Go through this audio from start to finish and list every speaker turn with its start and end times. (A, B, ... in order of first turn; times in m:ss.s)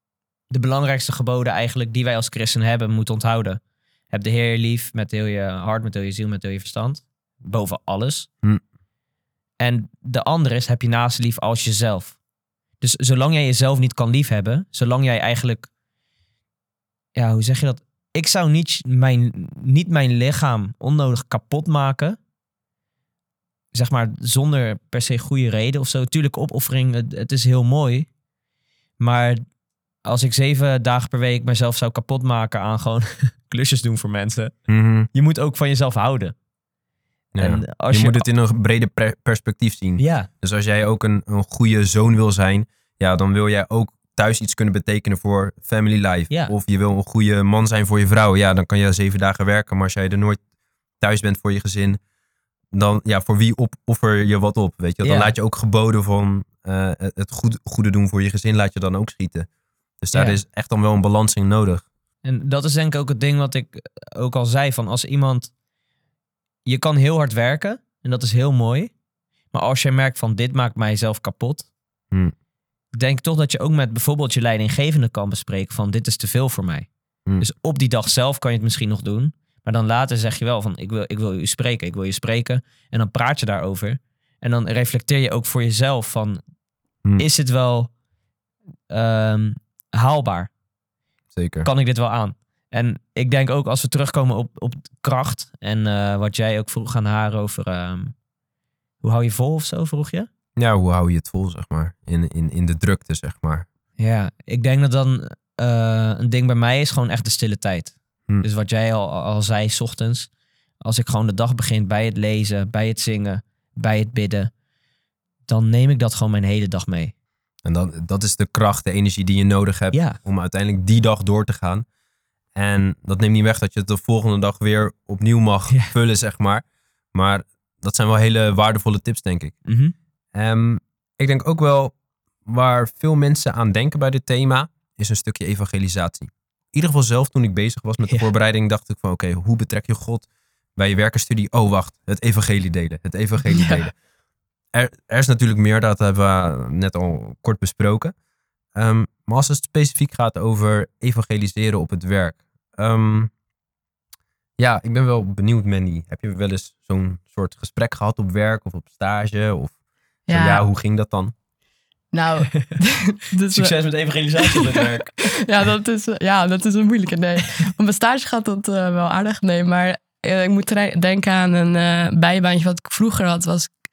0:00.5-0:03.6 A
0:04.1-0:08.3 A
0:09.6-0:12.2 A
0:12.8-0:15.7 A
0:17.2-0:22.2 A
0:23.7-0:28.1 A
0:29.0-0:29.4 A
0:30.0-0:34.6 A
0:34.7-0:35.1 B
0:35.1-0:36.4 A
0:37.4-0:50.4 B
0:37.4-0:38.2 A
0:40.0-0:40.3 A
0:51.0-0:52.0 B
0:52.7-0:59.5 B
0:55.0-0:55.3 A
1:00.0-1:01.8 B
1:00.1-1:00.4 A
1:02.2-1:05.5 A
1:06.7-1:08.9 A
1:09.5-1:11.7 A
1:13.0-1:16.9 A
1:17.4-1:26.4 A
1:27.2-1:27.9 A
1:28.9-1:30.5 A
1:31.3-1:31.7 B
1:31.6-1:38.1 A
1:39.0-1:40.3 A
1:40.6-1:43.7 B
1:44.0-1:50.3 A
1:50.8-1:54.5 A
1:55.5-1:57.1 A
1:57.6-2:01.8 B
1:59.9-2:00.2 A
2:02.6-2:09.6 B
2:09.7-2:09.9 A
2:10.3-2:24.0 B
2:23.4-2:23.8 C
2:24.7-2:28.1 B
2:28.8-2:33.3 B
2:34.6-2:39.7 B
2:40.3-2:40.6 C
2:40.3-2:41.3 B
2:42.1-2:43.7 C
2:43.5-2:45.3 A
2:44.4-2:53.7 C